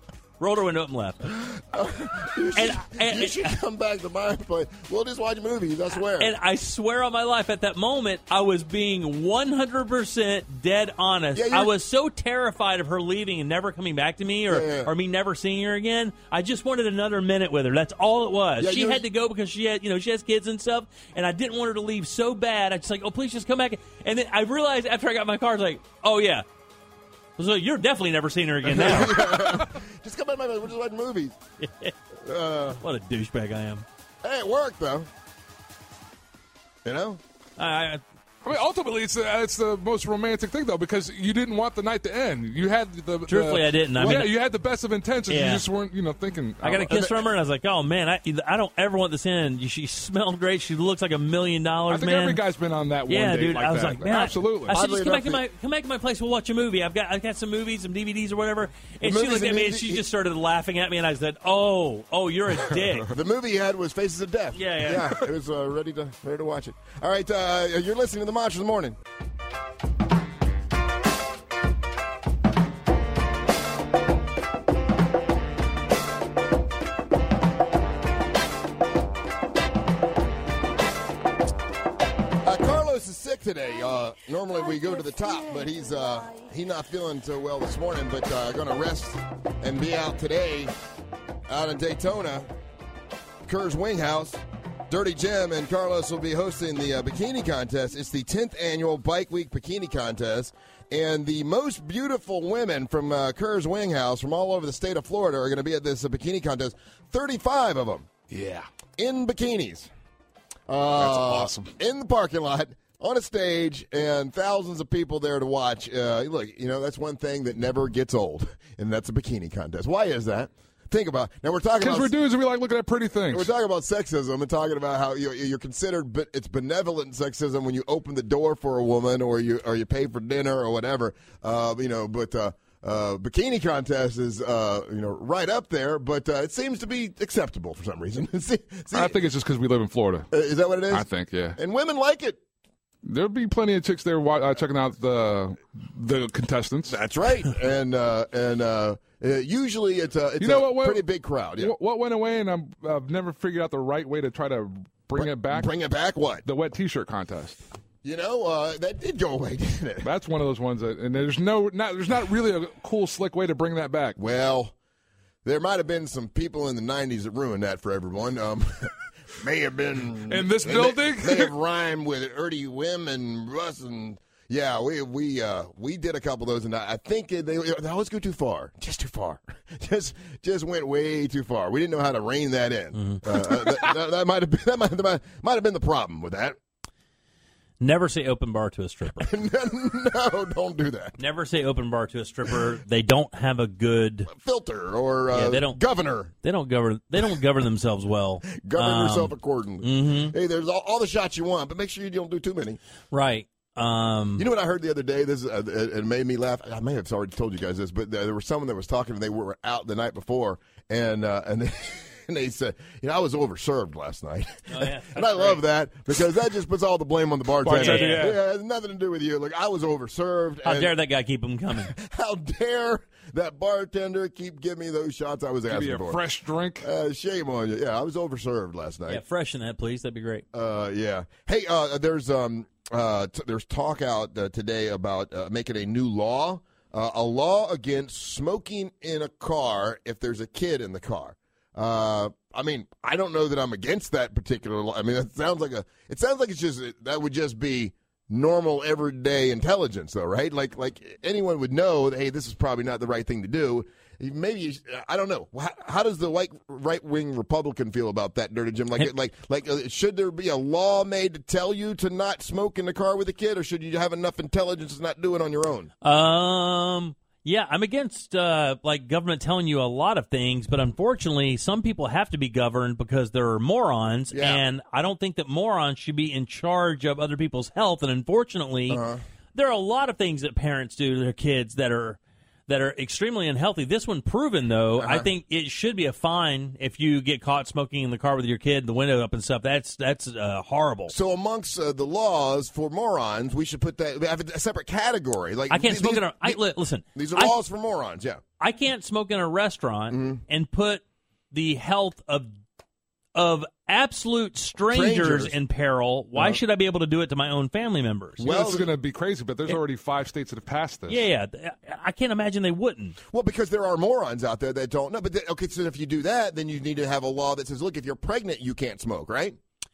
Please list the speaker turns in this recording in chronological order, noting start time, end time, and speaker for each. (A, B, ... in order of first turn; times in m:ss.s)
0:00.4-0:01.3 A
0:01.4-0:06.3 B
0:02.6-0:03.6 A
0:06.2-0:26.4 A
0:11.3-0:11.7 B
0:14.5-0:14.9 B
0:18.6-0:19.0 B
0:27.4-0:29.3 A
0:28.6-0:31.4 B
0:31.6-0:31.9 A
0:32.2-0:32.8 B
0:32.8-0:33.8 A
0:34.2-0:35.1 B
0:36.8-0:37.2 B
0:37.6-0:38.0 A
0:38.4-0:47.0 C
0:43.3-0:44.4 A
0:45.3-0:45.7 A
0:46.6-0:52.4 A
0:51.9-0:54.7 C
0:53.1-1:03.1 A
0:54.7-0:55.4 B
0:59.0-1:00.0 B
1:03.0-1:09.0 B
1:04.5-1:05.2 A
1:22.4-1:30.7 B
1:31.5-1:32.5 B
1:33.5-1:48.1 B
1:48.3-1:48.7 C
1:49.0-1:49.9 B
1:50.7-2:02.1 B
1:51.0-1:51.7 C
2:01.8-2:03.5 C
2:03.3-2:19.2 B
2:18.9-2:20.3 C
2:20.3-2:22.4 B
2:20.9-2:21.6 C
2:23.0-2:27.0 C
2:26.9-2:31.8 B
2:30.4-2:31.0 C
2:31.6-2:35.7 C
2:35.2-2:36.4 B
2:36.4-2:37.6 C
2:38.0-2:40.1 B
2:40.0-2:44.2 C
2:44.2-2:44.8 B
2:45.4-3:06.6 B
2:50.3-2:51.5 C
3:03.0-3:03.2 A
3:07.8-3:09.3 A
3:09.2-3:11.2 B
3:11.2-3:14.3 A
3:14.3-3:16.3 B
3:15.3-3:15.8 A
3:16.4-3:20.3 A
3:18.5-3:22.8 B
3:23.1-3:24.5 A
3:24.4-3:41.0 B
3:34.7-3:35.6 A
3:37.6-3:38.4 C
3:37.7-3:38.3 A
3:40.6-3:41.9 A
3:41.8-3:46.2 B
3:45.7-3:46.9 C
3:46.8-3:49.2 B
3:49.1-3:50.4 A
3:50.5-4:25.9 B
4:26.0-4:39.0 A
4:34.3-4:34.6 B
4:38.9-4:39.2 B
4:39.5-4:51.1 A
4:45.0-4:45.3 B
4:51.1-4:56.6 B
4:55.7-4:57.6 A
4:57.2-4:58.4 B
4:58.6-5:02.6 A
5:00.1-5:00.4 B
5:03.4-5:08.5 A
5:04.9-5:05.5 B
5:08.4-5:08.9 B
5:08.4-5:11.2 C
5:11.1-5:13.2 A
5:13.3-5:19.6 B